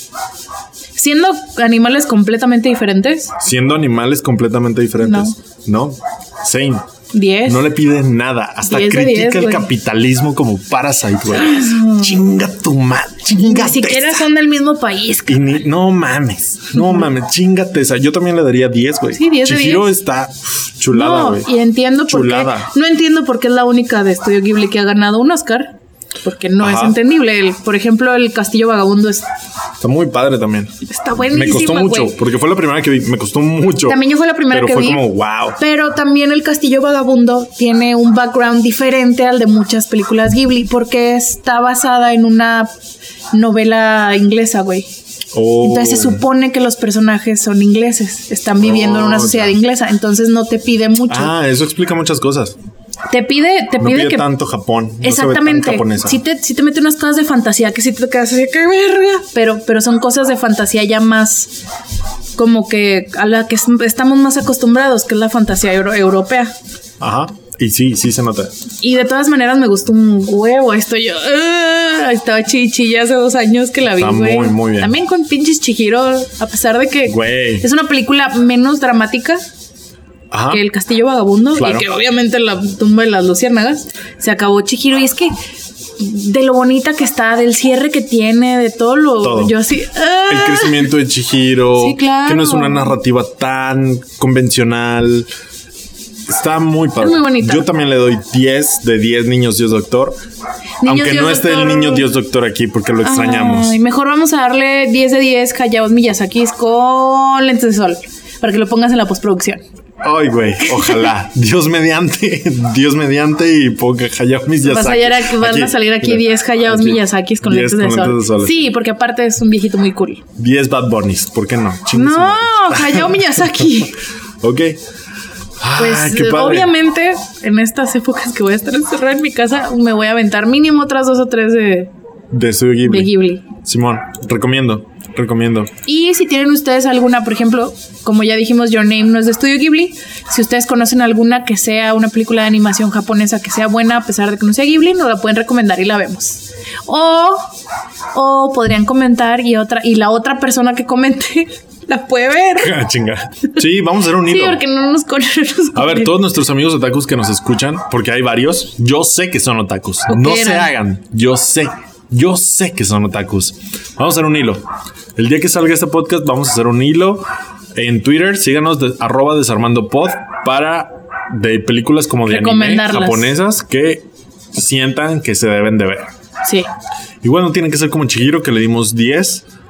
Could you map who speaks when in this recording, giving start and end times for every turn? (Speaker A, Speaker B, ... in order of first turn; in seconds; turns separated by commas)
Speaker A: 1.0-3.4, Speaker B: 3.4-6.9, Speaker A: 5.0-5.3, Speaker A: 7.1-7.7, Speaker B: 7.5-14.2, Speaker A: 8.6-9.7, Speaker A: 11.3-12.2, Speaker A: 13.4-15.6, Speaker B: 15.3-21.5, Speaker A: 19.1-19.9, Speaker A: 20.9-29.2, Speaker B: 22.1-22.7, Speaker B: 26.6-27.0, Speaker B: 29.8-30.7, Speaker A: 30.9-32.2, Speaker B: 31.3-35.6, Speaker A: 33.9-35.0, Speaker A: 35.6-42.7, Speaker A: 43.3-44.9, Speaker B: 45.3-46.2, Speaker A: 45.6-51.3, Speaker B: 48.6-49.6, Speaker B: 51.1-52.6, Speaker A: 53.1-54.3, Speaker B: 53.8-56.2, Speaker A: 55.0-61.6, Speaker A: 62.4-66.5, Speaker B: 67.0-68.5, Speaker A: 68.8-79.4, Speaker B: 74.0-74.9, Speaker B: 77.1-77.7, Speaker B: 80.3-80.6, Speaker A: 80.5-85.3, Speaker B: 81.5-81.9, Speaker A: 86.0-90.9, Speaker B: 89.2-89.5, Speaker B: 90.3-95.3, Speaker A: 91.8-92.9, Speaker B: 96.3-100.2, Speaker A: 97.0-97.7, Speaker A: 100.8-102.1, Speaker B: 100.8-103.8, Speaker A: 103.0-109.6, Speaker B: 110.0-118.6, Speaker A: 114.6-120.2, Speaker B: 120.4-123.8, Speaker A: 121.9-124.0, Speaker B: 124.4-124.8, Speaker B: 125.6-126.7, Speaker A: 125.8-131.9, Speaker B: 132.3-135.7, Speaker A: 132.9-133.4, Speaker A: 135.8-147.5, Speaker A: 148.1-152.8, Speaker B: 152.6-154.6, Speaker A: 154.2-156.1, Speaker B: 155.8-164.7, Speaker A: 160.1-160.7, Speaker B: 165.2-176.1, Speaker A: 172.2-173.3, Speaker B: 177.2-179.4